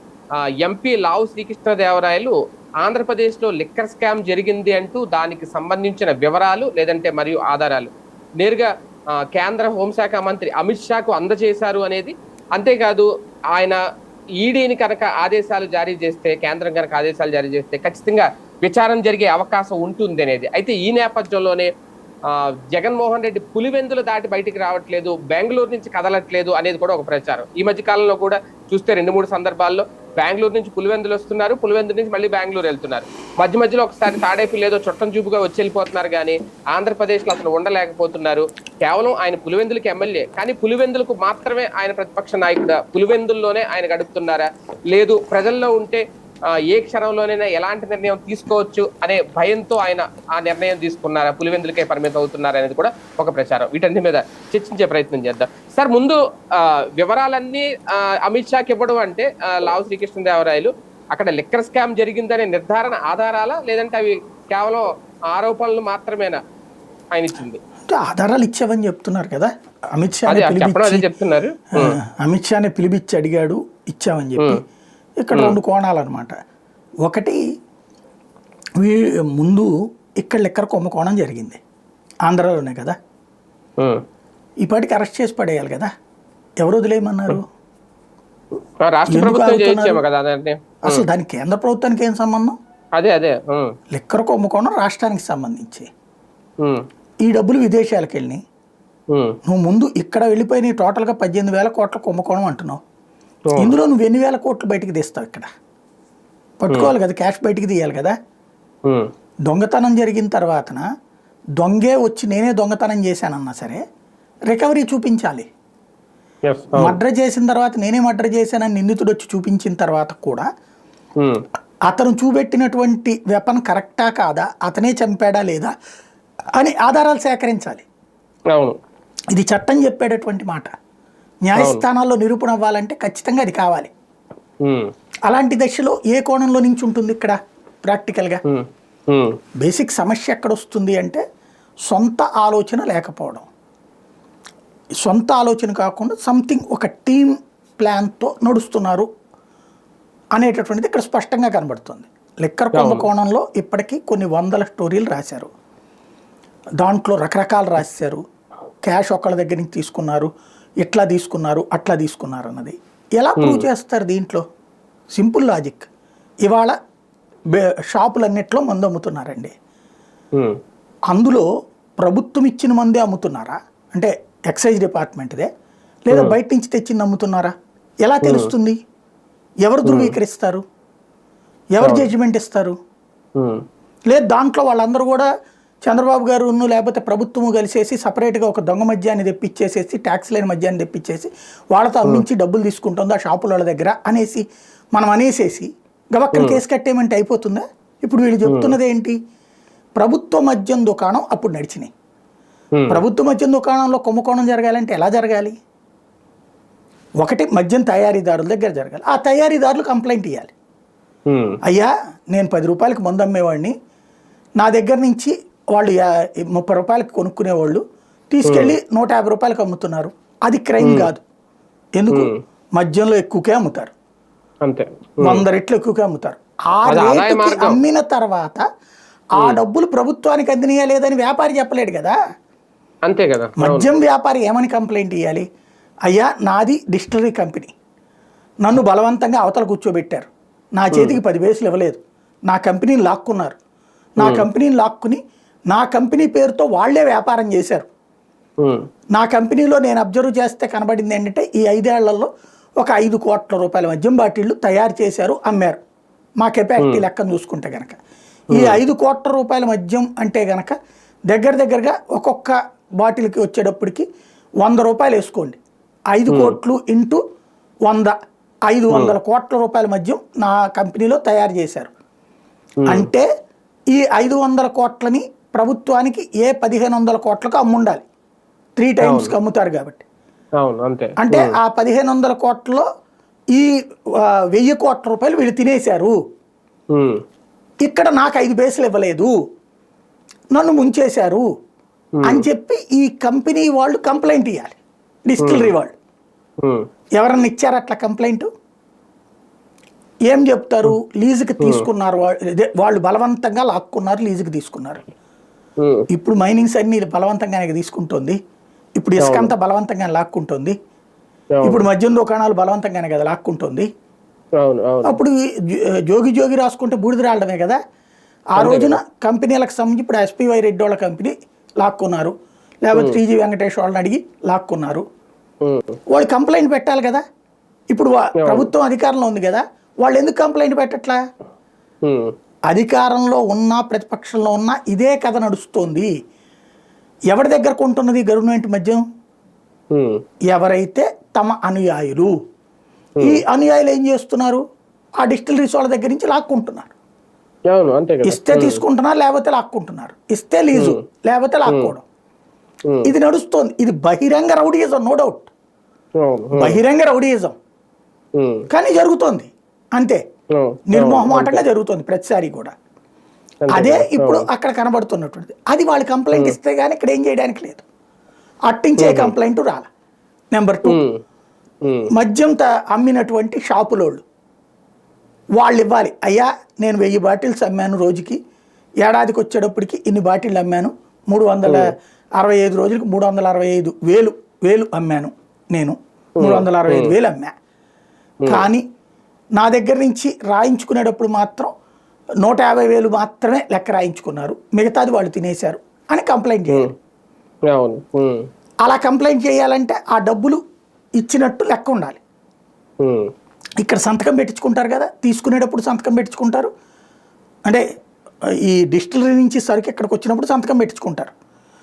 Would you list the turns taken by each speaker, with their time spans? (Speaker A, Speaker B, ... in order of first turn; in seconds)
Speaker A: 0.6-7.9, 8.4-8.7, 9.3-13.8, 14.4-21.7, 22.3-46.0, 46.7-66.4, 67.1-67.6, 70.3-72.0, 88.8-91.0, 93.0-93.7, 116.5-117.0, 131.6-131.8, 138.4-139.3, 152.7-153.1, 163.4-163.7, 176.1-176.4, 178.2-178.5, 179.8-180.1, 181.8-182.1, 196.3-196.6, 198.5-198.8, 202.8-203.0, 211.3-211.6, 218.4-218.7, 220.8-221.1, 224.7-225.4, 226.9-227.8, 233.1-233.9, 244.2-244.5, 258.5-258.8, 266.3-266.6, 279.0-279.3, 280.6-281.5, 292.2-292.4, 295.4-295.7, 301.6-301.9, 309.2-309.5, 311.6-311.8, 314.6-315.2, 318.6-319.0, 322.9-323.2, 325.6-325.9, 328.4-328.7, 332.1-332.3, 339.9-340.2, 347.7-348.8, 350.7-351.0, 356.2-356.8, 358.4-358.6, 360.6-361.6, 363.6-364.5, 369.0-369.3, 370.9-371.2, 386.4-387.1, 397.7-398.4, 403.0-403.3
Speaker B: 67.9-71.0, 71.8-74.6, 75.2-76.3, 77.0-77.4, 78.8-79.7, 80.2-81.6, 82.2-82.9, 84.6-85.9, 86.6-87.4, 89.1-90.0, 90.8-92.5, 93.9-95.9, 97.2-98.4, 99.4-102.8, 103.6-105.5, 106.6-108.1, 109.5-110.8, 111.6-113.8, 114.5-115.5, 116.8-120.5, 121.9-125.7, 126.6-127.8, 129.3-130.7, 131.4-133.9, 135.3-137.3, 137.9-138.4, 139.6-141.2, 141.9-143.5, 145.0-149.1, 150.3-155.5, 156.8-158.2, 158.8-160.3, 160.8-164.4, 165.1-165.9, 166.4-166.8, 167.5-169.5, 171.1-171.5, 172.0-175.5, 176.1-177.5, 178.0-178.8, 179.7-180.6, 181.7-182.7, 184.1-185.3, 185.8-199.2, 200.0-201.9, 202.9-205.6, 207.2-210.5, 211.7-213.7, 214.6-221.2, 222.0-223.9, 225.2-228.6, 229.4-232.1, 233.6-235.4, 236.1-237.7, 238.6-243.6, 244.2-245.2, 245.7-247.9, 249.1-252.3, 252.8-255.8, 256.4-258.0, 258.5-260.7, 261.3-264.0, 264.6-265.6, 266.1-267.2, 267.9-268.1, 268.7-271.9, 272.9-273.3, 273.9-278.0, 278.8-280.0, 281.2-282.8, 283.5-286.1, 287.8-289.3, 290.5-291.4, 292.2-295.9, 297.2-298.5, 300.3-305.1, 306.1-308.4, 309.0-310.7, 311.6-313.9, 315.1-317.8, 318.6-322.3, 322.8-325.0, 326.1-327.2, 327.9-331.2, 332.7-336.1, 337.3-339.0, 340.5-342.3, 343.2-344.6, 345.2-346.9, 348.2-352.0, 353.0-355.5, 356.6-357.6, 358.7-360.2, 360.9-362.7, 363.7-367.8, 368.7-369.9, 370.5-371.0, 372.1-374.2, 375.6-378.4, 379.0-387.5, 388.5-388.8, 389.6-391.7, 392.4-396.9, 398.8-400.6, 401.2-402.2, 403.8-406.7, 408.6-411.3